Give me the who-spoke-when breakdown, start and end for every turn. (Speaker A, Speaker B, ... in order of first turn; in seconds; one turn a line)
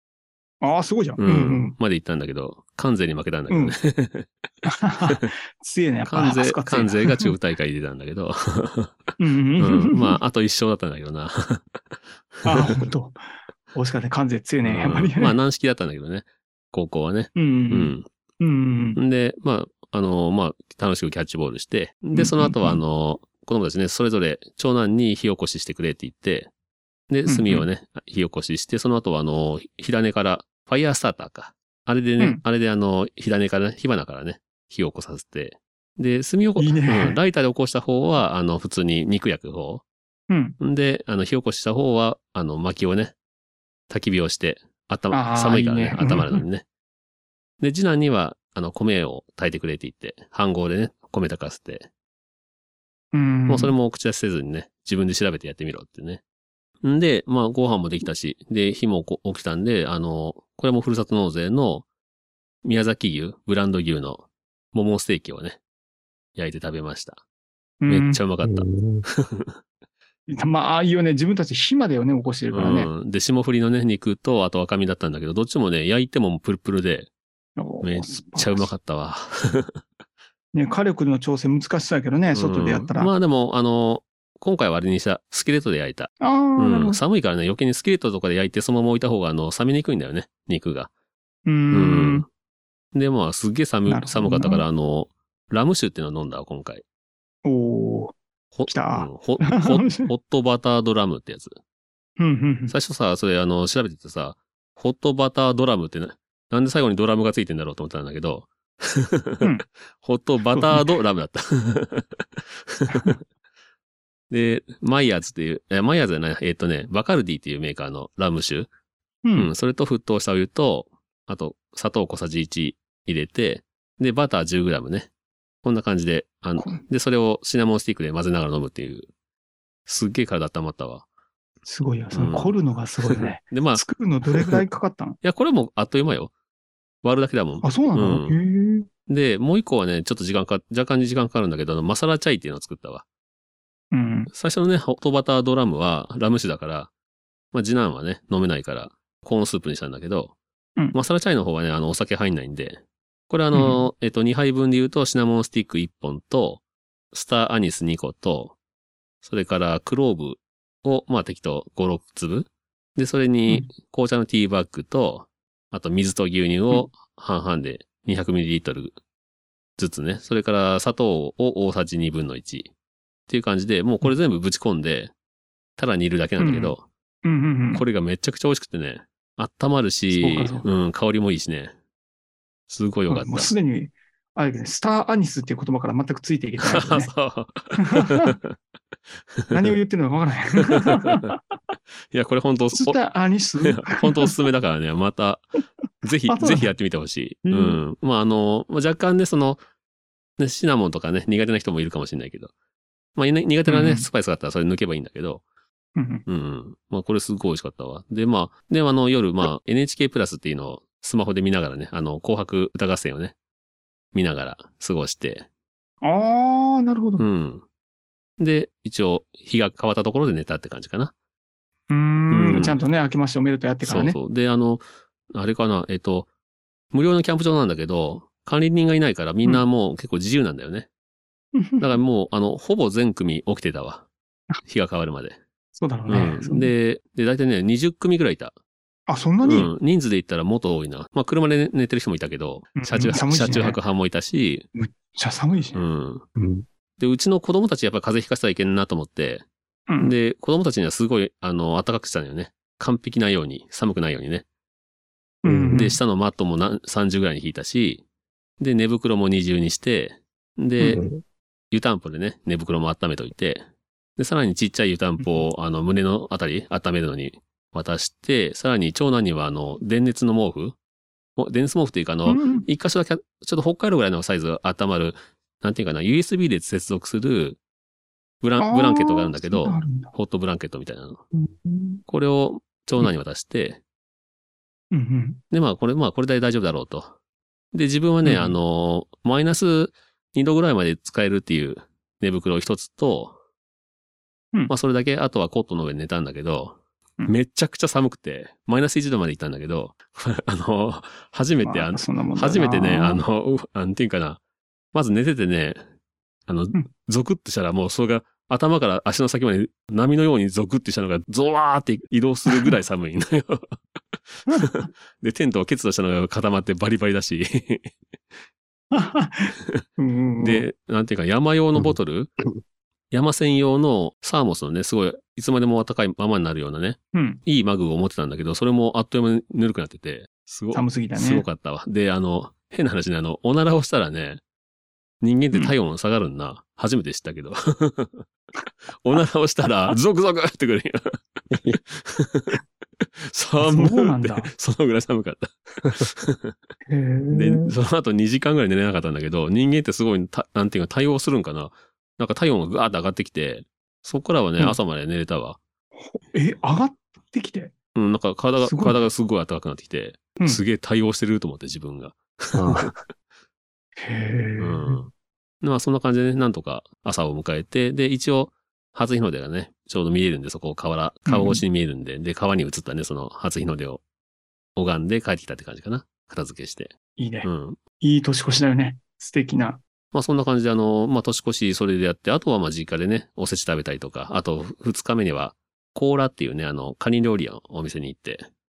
Speaker A: 0.6-1.8
Speaker B: 1.2-4.3
Speaker A: 3.5-3.8
Speaker A: 4.7-7.3
Speaker B: 6.1-9.0
Speaker A: 9.2-10.2
Speaker B: 9.6-12.9
Speaker A: 12.4-13.2
Speaker A: 13.7-15.4
Speaker B: 14.6-18.1
Speaker A: 17.4-19.0
Speaker B: 19.0-26.5
Speaker A: 22.1-22.8
Speaker B: 27.1-39.9
Speaker A: 27.3-27.7
Speaker A: 36.6-37.2
Speaker A: 40.3-40.6
Speaker B: 40.6-43.1
Speaker B: 43.9-46.6
Speaker A: 45.1-46.5
Speaker B: 47.6-51.9
Speaker A: 53.1-53.8
Speaker B: 53.5-56.2
Speaker B: 56.8-61.9
Speaker B: 62.6-65.6
Speaker B: 66.4-67.2
Speaker A: 67.8-68.2
Speaker B: 67.9-69.6
Speaker C: 68.4-69.0
Speaker A: 70.3-72.9
Speaker B: 72.5-77.1
Speaker A: 77.6-78.7
Speaker B: 77.8-79.8
Speaker A: 80.5-83.1
Speaker B: 82.3-90.9
Speaker A: 86.2-87.0
Speaker A: 91.5-92.3
Speaker B: 91.7-92.3
Speaker B: 92.9-96.8
Speaker A: 93.9-94.7
Speaker A: 97.4-100.1
Speaker B: 98.5-101.6
Speaker A: 102.2-102.8
Speaker B: 102.7-113.2
Speaker A: 110.5-110.9
Speaker A: 112.9-113.2
Speaker B: 114.3-118.7
Speaker A: 119.2-119.5
Speaker B: 119.3-125.1
Speaker B: 125.6-129.1
Speaker B: 129.9-131.1
Speaker A: 131.7-135.2
Speaker B: 132.1-132.6
Speaker B: 133.1-133.8
Speaker B: 135.2-136.3
Speaker B: 137.0-138.4
Speaker A: 137.6-138.9
Speaker B: 139.1-143.1
Speaker A: 143.9-144.3
Speaker B: 144.3-146.9
Speaker B: 147.5-150.4
Speaker B: 150.9-158.6
Speaker A: 153.5-153.8
Speaker B: 159.2-169.0
Speaker B: 169.8-172.7
Speaker B: 173.3-175.1
Speaker B: 175.8-176.9
Speaker A: 176.4-177.8
Speaker B: 177.7-181.7
Speaker A: 180.1-180.7
Speaker B: 182.7-183.5
Speaker A: 183.1-187.1
Speaker B: 186.6-188.5
Speaker A: 187.8-188.4
Speaker B: 189.4-189.7
Speaker A: 189.5-191.4
Speaker B: 192.1-193.0
Speaker A: 192.8-194.3
Speaker B: 193.6-195.4
Speaker B: 196.0-199.6
Speaker A: 196.3-196.7
Speaker A: 197.5-197.8
Speaker B: 200.4-202.5
Speaker B: 203.2-205.4
Speaker A: 203.7-204.1
Speaker A: 206.0-206.2
Speaker B: 206.3-213.3
Speaker B: 214.1-215.5
Speaker A: 216.0-217.2
Speaker B: 217.2-217.7
Speaker B: 218.4-221.1
Speaker A: 221.9-224.2
Speaker B: 222.3-222.8
Speaker B: 223.8-226.3
Speaker B: 226.9-230.9
Speaker A: 231.6-232.0
Speaker B: 231.8-234.1
Speaker B: 234.7-235.4
Speaker A: 235.8-236.7
Speaker B: 236.1-238.5
Speaker A: 239.1-239.7
Speaker B: 239.4-244.7
Speaker A: 242.8-243.8
Speaker A: 244.8-245.8
Speaker B: 245.7-246.2
Speaker C: 246.4-246.7
Speaker B: 247.0-249.5
Speaker A: 249.9-250.2
Speaker B: 250.0-254.5
Speaker A: 255.4-256.0
Speaker C: 255.5-255.9
Speaker B: 255.7-258.0
Speaker B: 258.6-261.0
Speaker C: 260.8-261.2
Speaker B: 261.7-263.6
Speaker B: 264.2-270.8
Speaker B: 271.4-277.6
Speaker A: 272.3-272.7
Speaker B: 278.4-281.2
Speaker A: 278.6-280.1
Speaker A: 281.3-282.0
Speaker B: 282.1-283.8
Speaker A: 284.9-285.4
Speaker B: 285.5-287.1
Speaker B: 287.7-293.4
Speaker A: 288.2-288.6
Speaker B: 294.7-304.4
Speaker A: 301.6-303.2
Speaker B: 304.9-305.8
Speaker B: 306.5-317.9
Speaker A: 312.5-312.8
Speaker A: 318.9-320.6
Speaker B: 320.4-322.3
Speaker B: 323.1-334.4
Speaker A: 327.1-327.4
Speaker A: 330.7-331.4
Speaker B: 335.2-338.3
Speaker B: 339.0-346.6
Speaker C: 341.5-341.8
Speaker A: 343.6-344.5
Speaker A: 346.9-347.7
Speaker B: 347.3-355.6
Speaker A: 356.0-357.7
Speaker B: 357.9-362.9
Speaker A: 358.6-359.0
Speaker C: 362.5-363.0
Speaker A: 364.0-365.0
Speaker B: 364.6-365.1
Speaker B: 365.6-374.0
Speaker A: 371.3-371.6
Speaker B: 374.8-376.9
Speaker A: 377.2-377.5
Speaker B: 377.4-377.8
Speaker A: 378.0-379.8
Speaker B: 380.1-388.5